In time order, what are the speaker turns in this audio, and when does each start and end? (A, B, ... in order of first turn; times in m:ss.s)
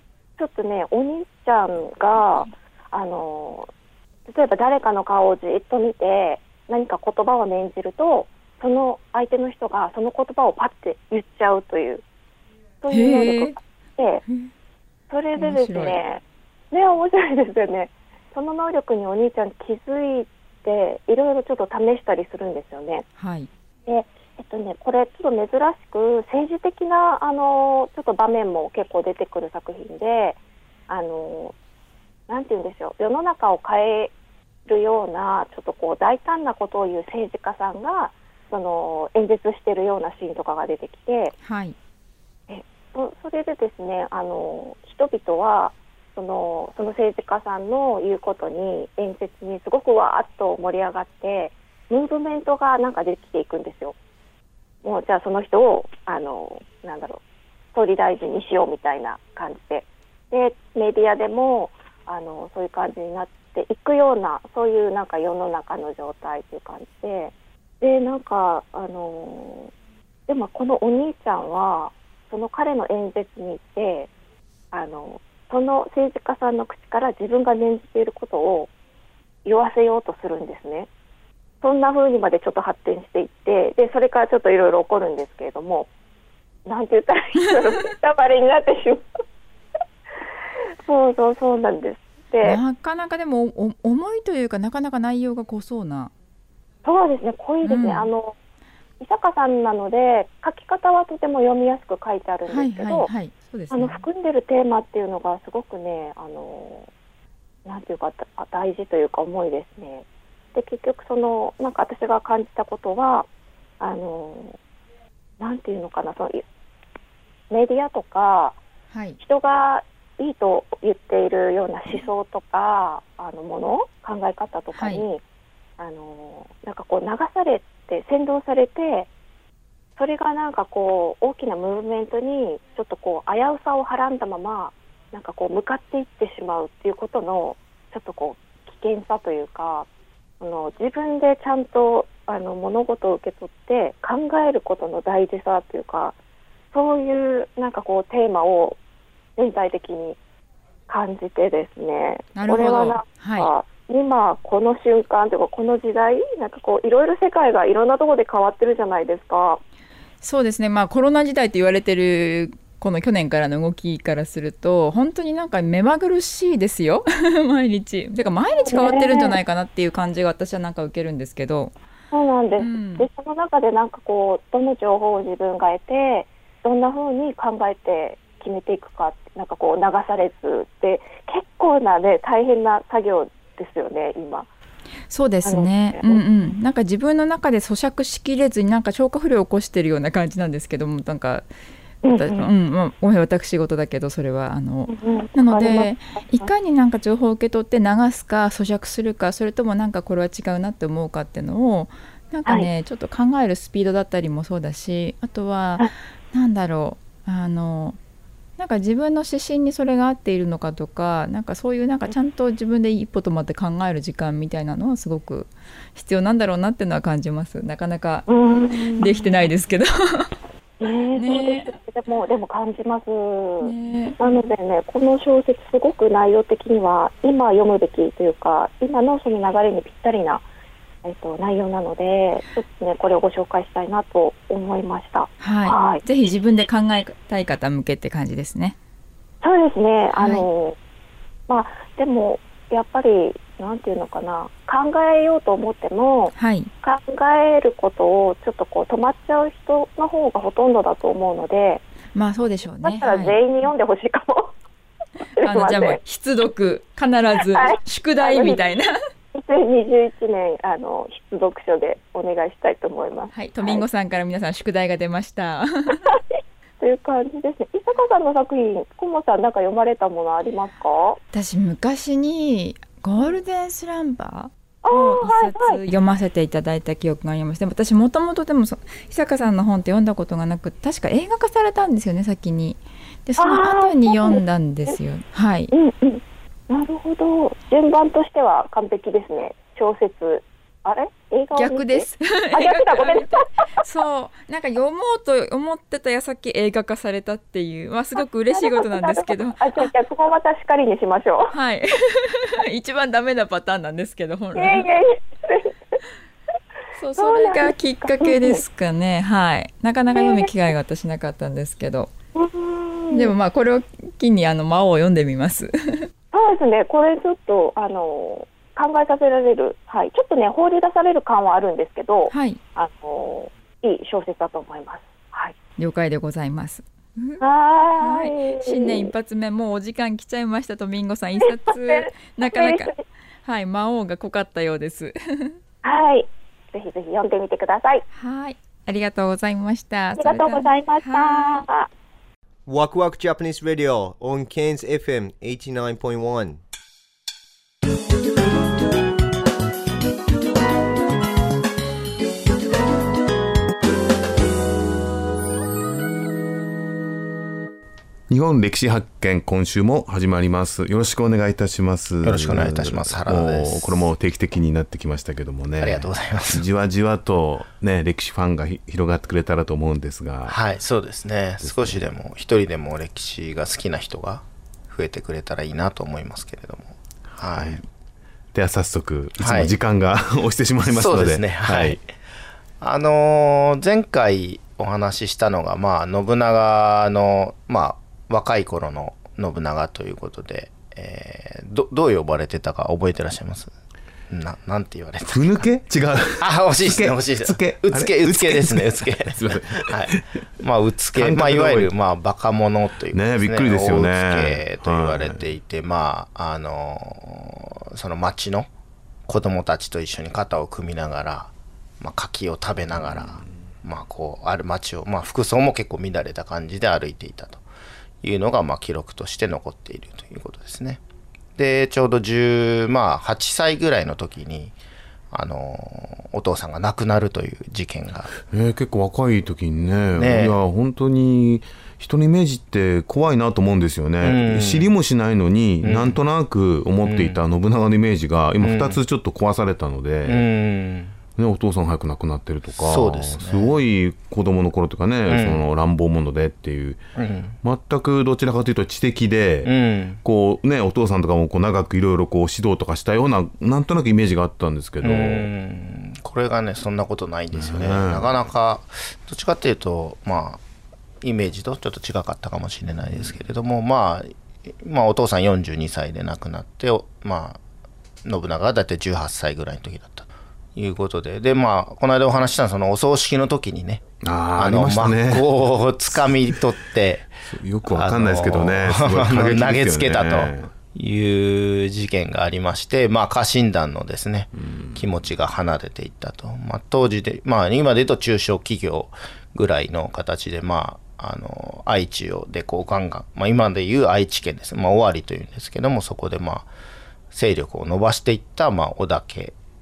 0:00.4-0:03.7 A
0:04.3-0:12.0 A
0:12.8-0:14.2 A
0:12.9-0:13.6 B
0:15.1-0:23.0 A
0:15.4-0:16.0 B
0:23.2-0:23.5 B
0:23.9-0:30.4 A
0:30.9-0:31.5 A
0:32.3-0:34.1 A
0:34.6-0:41.3 A
0:41.4-0:41.7 B
0:42.5-0:53.9 A
0:54.8-0:57.2 A
0:57.7-1:09.7 A
1:10.3-1:14.1 A
1:14.7-1:18.7 A
1:19.4-1:20.9 A
1:21.6-1:25.9 A
1:26.6-1:29.0 A
1:30.8-1:32.6 A
1:32.4-1:36.1 B
1:36.8-1:38.3 A
1:37.6-1:38.1 B
1:39.0-1:43.1 A
1:42.5-1:44.0 B
1:43.7-1:46.9 A
1:47.6-1:53.3 A
1:53.8-1:54.6 A
1:55.4-1:56.4 A
1:57.5-1:58.6 A
1:58.9-1:59.2 B
1:59.2-2:05.2 A
2:04.7-2:05.0 B
2:05.8-2:09.1 A
2:10.0-2:19.9 A
2:20.4-2:26.1 A
2:26.7-2:28.8 A
2:29.4-2:30.2 A
2:30.9-2:39.6 A
2:32.3-2:33.5 B
2:40.2-2:51.7 B
2:48.6-2:49.4 A
2:52.1-3:04.5 A
2:52.6-2:53.1 B
3:05.1-3:11.5 B
3:05.4-3:06.2 A
3:12.0-3:12.5 A
3:12.1-3:28.0 B
3:14.9-3:16.5 A
3:28.6-3:38.2 B
3:38.3-3:39.3 A
3:38.9-3:40.3 B
3:40.8-3:50.4 A
3:41.1-3:41.7 B
3:43.6-3:44.2 B
3:51.0-3:56.0 A
3:55.4-3:58.8 B
3:59.4-4:00.8 A
4:00.2-4:00.4 B
4:01.5-4:11.8 A
4:06.3-4:06.7 B
4:12.1-4:13.4 B
4:12.8-4:14.5 A
4:15.4-4:16.0 A
4:15.4-4:18.9 B
4:17.5-4:18.7 A
4:19.3-4:23.8 A
4:23.3-4:26.2 B
4:26.8-4:31.2 A
4:31.3-4:45.7 B
4:34.8-4:35.8 A
4:43.4-4:45.0 A
4:45.7-4:53.4 A
4:51.5-4:59.9 B
4:58.5-5:01.6 A
5:01.5-5:04.9 B
5:04.5-5:05.7 A
5:07.0-5:12.1 B
5:07.2-5:08.6 A
5:10.1-5:10.5 A
5:12.4-5:13.3 A
5:13.1-5:16.1 B
5:16.3-5:25.5 A
5:22.3-5:22.6 B
5:25.8-5:27.4 B
5:27.4-5:29.1 A
5:28.0-5:35.5 B
5:31.4-5:33.0 A
5:35.8-5:38.0 A
5:38.1-5:41.6 B
5:40.2-5:41.9 A
5:42.7-5:46.6 C
5:58.3-6:10.6 D
6:02.2-6:04.0 E
6:05.8-6:06.6 E
6:10.4-6:17.8 E
6:11.6-6:12.0 D
6:17.5-6:17.8 D
6:18.5-6:22.0 D
6:19.4-6:19.7 E
6:20.8-6:22.0 E
6:22.8-6:33.7 E
6:34.3-6:35.6 E
6:35.3-6:40.2 D
6:36.4-6:48.7 E
6:41.1-6:41.9 D
6:43.1-6:45.4 D
6:49.3-6:57.6 E
6:52.9-6:53.5 D
6:58.2-7:01.0 E
7:01.6-7:04.7 E
7:05.3-7:08.3 E
7:08.4-7:20.4 D
7:10.2-7:10.6 E
7:14.2-7:14.9 E
7:15.8-7:16.2 E
7:17.0-7:17.4 E
7:18.6-7:19.0 E
7:20.2-7:21.1 E
7:21.4-7:27.0 D
7:22.7-7:23.7 E
7:25.3-7:25.6 E
7:27.2-7:27.6 E
7:27.6-7:29.7 D
7:29.6-7:30.2 E
7:30.2-7:35.5 D
7:35.0-7:40.6 E
7:37.5-7:38.3 D
7:41.2-7:47.6 E
7:43.1-7:43.3 D
7:48.2-7:54.0 E
7:54.2-7:55.5 D
7:54.6-7:57.3 E
7:56.1-7:56.6 D
7:57.4-8:00.7 D
7:57.8-8:16.7 E
8:04.6-8:05.1 D
8:17.3-8:19.5 E